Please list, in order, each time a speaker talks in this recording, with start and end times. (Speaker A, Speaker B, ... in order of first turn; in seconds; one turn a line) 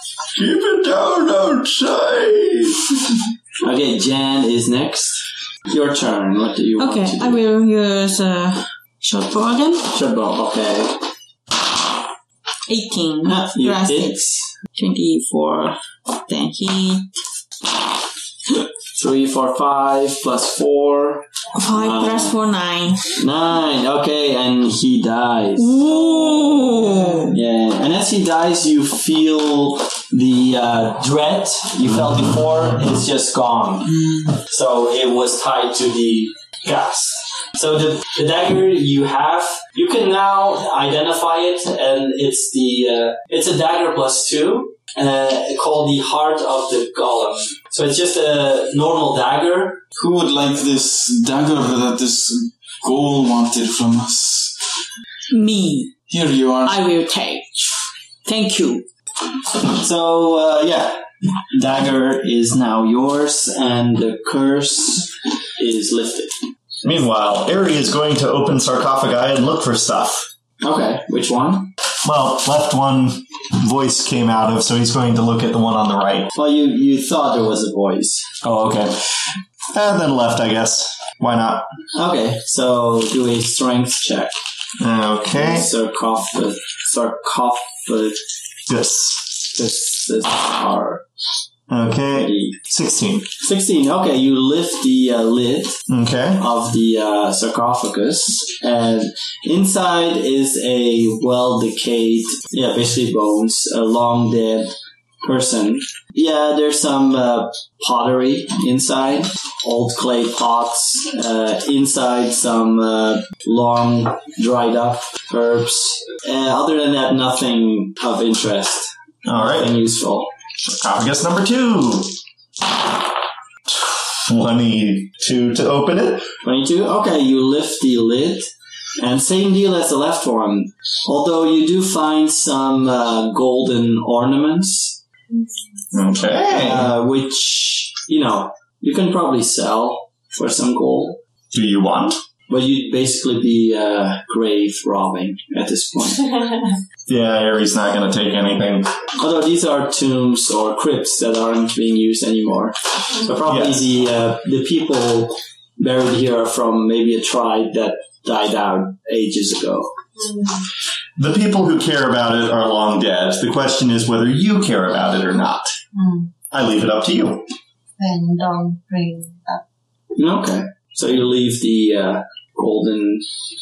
Speaker A: 0.3-2.8
Speaker B: 3.6-7.4
Speaker C: 6.8-9.9
Speaker B: 9.9-11.0
Speaker C: 12.7-17.1
Speaker B: 13.2-14.6
Speaker B: 18.9-22.4
Speaker C: 21.6-23.1
Speaker B: 23.2-26.6
Speaker C: 25.6-27.4
Speaker B: 27.3-33.9
Speaker D: 33.9-34.4
Speaker B: 34.5-49.8
Speaker D: 50.0-54.6
Speaker C: 55.3-55.9
Speaker D: 56.1-56.8
Speaker C: 56.6-57.6
Speaker C: 58.2-58.9
Speaker B: 59.5-66.3
Speaker A: 66.8-70.3
Speaker B: 70.6-71.7
Speaker A: 72.0-76.3
Speaker B: 76.3-78.3
Speaker A: 78.4-81.7
Speaker B: 82.0-84.3
Speaker A: 84.8-85.7
Speaker B: 85.3-88.2
Speaker A: 88.7-89.5
Speaker B: 89.5-91.0
Speaker A: 91.7-93.3
Speaker B: 92.1-92.6
Speaker B: 93.4-95.8
Speaker A: 95.9-96.4
Speaker B: 96.4-120.3
Speaker A: 119.2-119.8
Speaker A: 120.7-122.1
Speaker A: 123.7-126.3
Speaker B: 126.4-135.0
Speaker A: 135.9-136.9
Speaker B: 136.5-141.2
Speaker A: 141.5-142.2
Speaker B: 142.5-146.2
Speaker A: 147.1-148.9
Speaker B: 149.2-159.9
Speaker A: 153.4-153.9
Speaker E: 160.2-160.7
Speaker A: 161.2-165.7
Speaker E: 165.9-166.3
Speaker A: 166.5-167.5
Speaker E: 168.0-169.6
Speaker B: 170.2-173.3